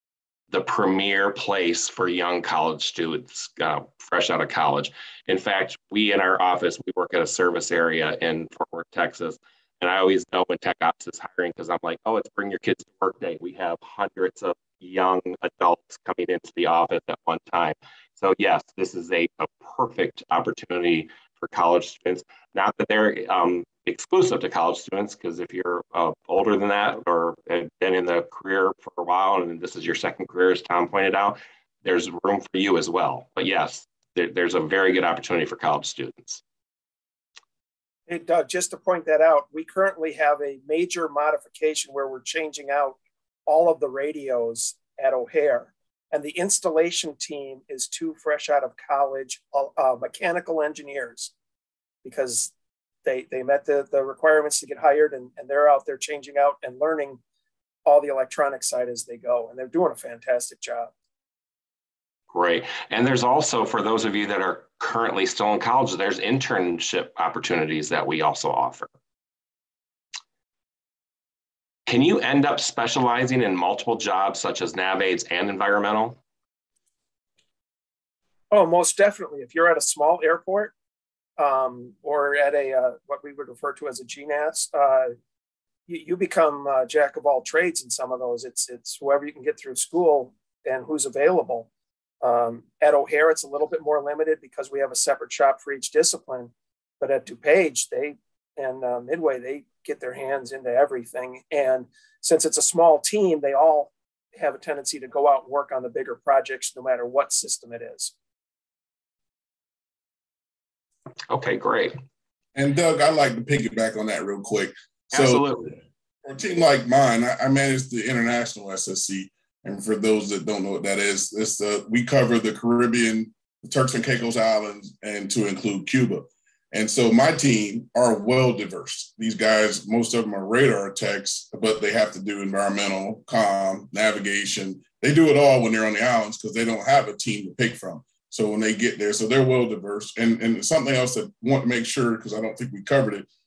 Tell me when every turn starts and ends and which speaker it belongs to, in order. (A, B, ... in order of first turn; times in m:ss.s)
0:00.5-0:36.4 A
0:38.1-0:51.3 B
0:52.0-0:52.5 B
0:53.0-0:57.2 B
0:57.8-1:00.9 B
1:02.3-1:08.9 A
1:11.9-1:16.2 A
1:18.5-1:20.7 B
1:21.4-1:25.1 B
1:25.9-1:31.7 B
1:32.2-1:48.1 B
1:51.3-1:52.0 A
1:52.5-1:55.6 C
1:55.1-1:55.8 A
1:56.2-2:23.3 C